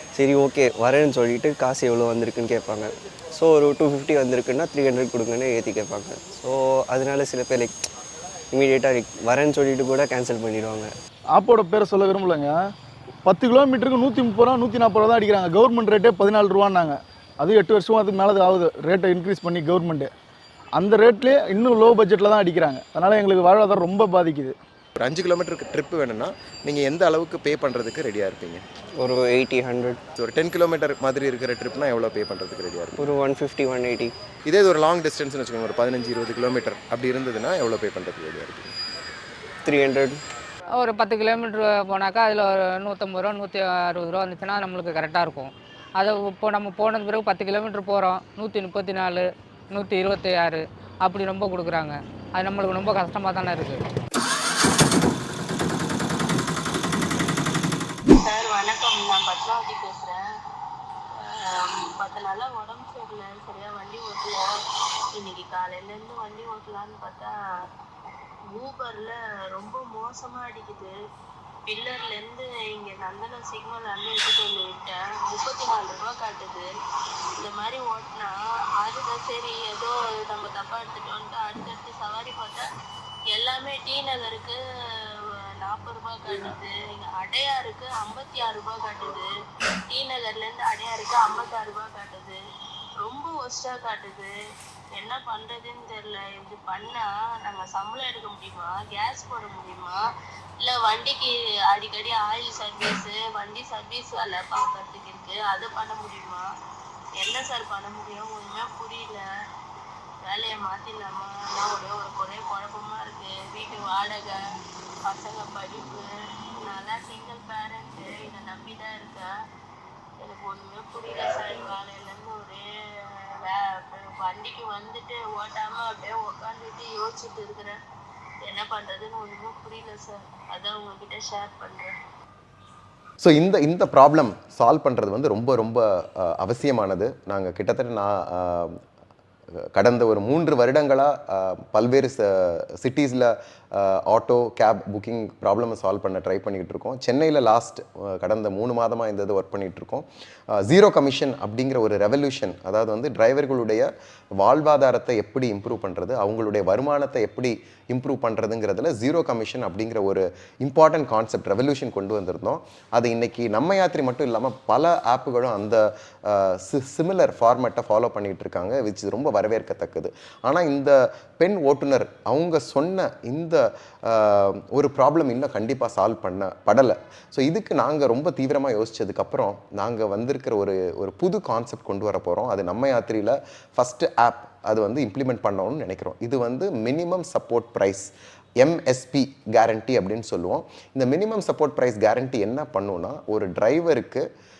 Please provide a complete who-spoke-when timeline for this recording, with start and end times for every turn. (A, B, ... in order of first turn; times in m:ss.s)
0:00.2-0:07.7 A
0:08.5-0:10.9 A
0:11.3-0:12.5 B
0:13.2-0:20.1 B
0:20.8-0:24.6 B
0:25.0-0:28.6 C
0:29.0-0:30.0 A
0:30.2-0:33.0 C
0:33.0-0:34.1 A
0:34.5-0:38.7 C
0:39.6-0:40.2 A
0:40.8-0:53.8 D
0:58.2-1:00.2 E
1:01.1-1:04.6 E
1:05.2-1:07.3 E
1:08.5-1:10.9 E
1:11.6-1:16.7 E
1:17.4-1:22.6 E
1:23.3-1:24.6 E
1:25.6-1:29.3 E
1:29.9-1:32.4 E
1:33.0-1:34.3 E
1:35.0-1:40.0 E
1:40.6-1:46.4 E
1:47.2-1:49.2 E
1:50.3-1:54.4 E
1:55.1-1:56.0 E
1:56.7-1:59.3 E
2:00.2-2:02.6 E
2:03.4-2:07.7 E
2:08.4-2:11.9 E
2:13.2-2:18.8 C
2:19.7-2:33.9 C
2:34.4-3:08.1 C
3:08.6-3:14.2 C